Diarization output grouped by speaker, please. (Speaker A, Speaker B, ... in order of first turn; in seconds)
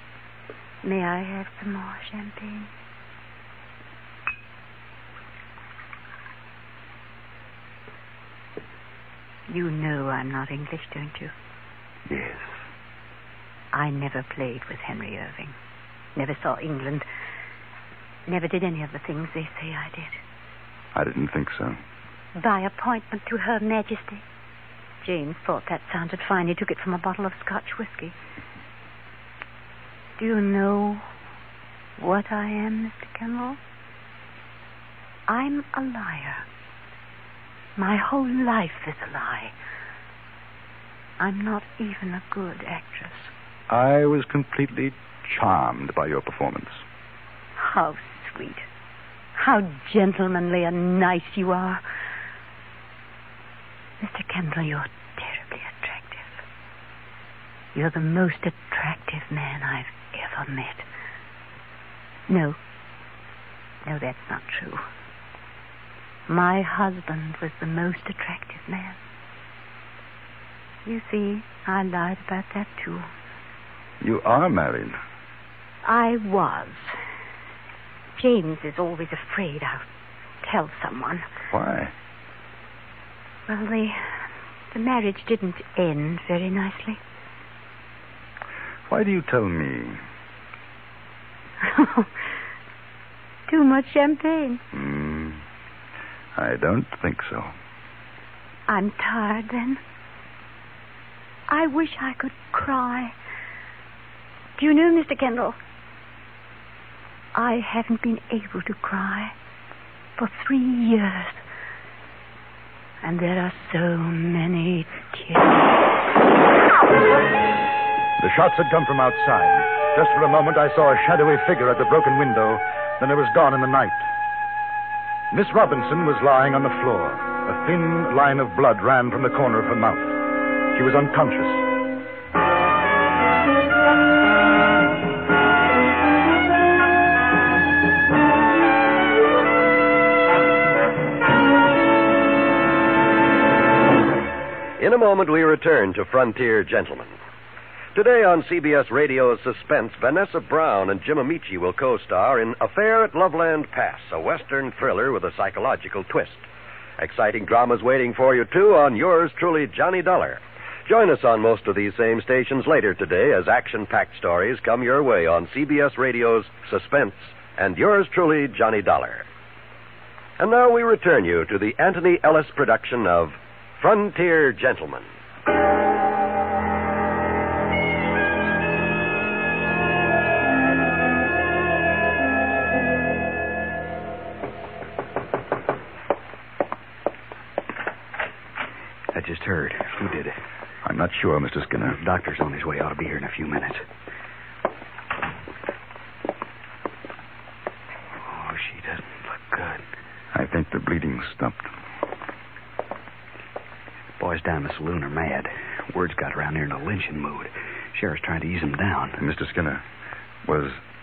Speaker A: 0.8-2.7, 9.5-11.3, 13.7-15.6, 16.2-17.1, 18.3-20.2, 22.4-24.2, 25.0-28.1, 30.2-31.1, 32.0-33.6, 35.3-36.5, 37.8-39.5, 41.2-43.3, 47.6-48.6, 49.4-51.8, 54.0-56.3, 57.7-60.9, 62.3-62.6, 63.9-64.8, 66.3-69.0, 70.8-73.1, 75.8-77.0, 78.2-79.8, 80.4-81.2, 83.5-84.0, 84.7-87.0, 91.6-92.1, 93.5-94.6, 98.7-99.8, 101.5-103.2, 104.6-105.6, 107.3-109.3, 110.2-111.4, 113.0-115.7
Speaker B: 12.1-12.4, 20.9-21.8, 43.7-46.8, 74.0-75.0, 81.5-81.9, 88.9-90.0, 94.7-95.4, 96.4-97.5, 118.2-124.0, 125.3-130.2, 130.7-131.7, 190.8-192.0, 200.3-201.7, 209.2-209.8, 210.4-210.8
Speaker C: 144.8-147.1, 147.9-156.4, 157.0-169.2, 170.4-175.1
Speaker D: 189.1-190.4, 191.9-193.8, 198.2-199.8, 204.2-209.2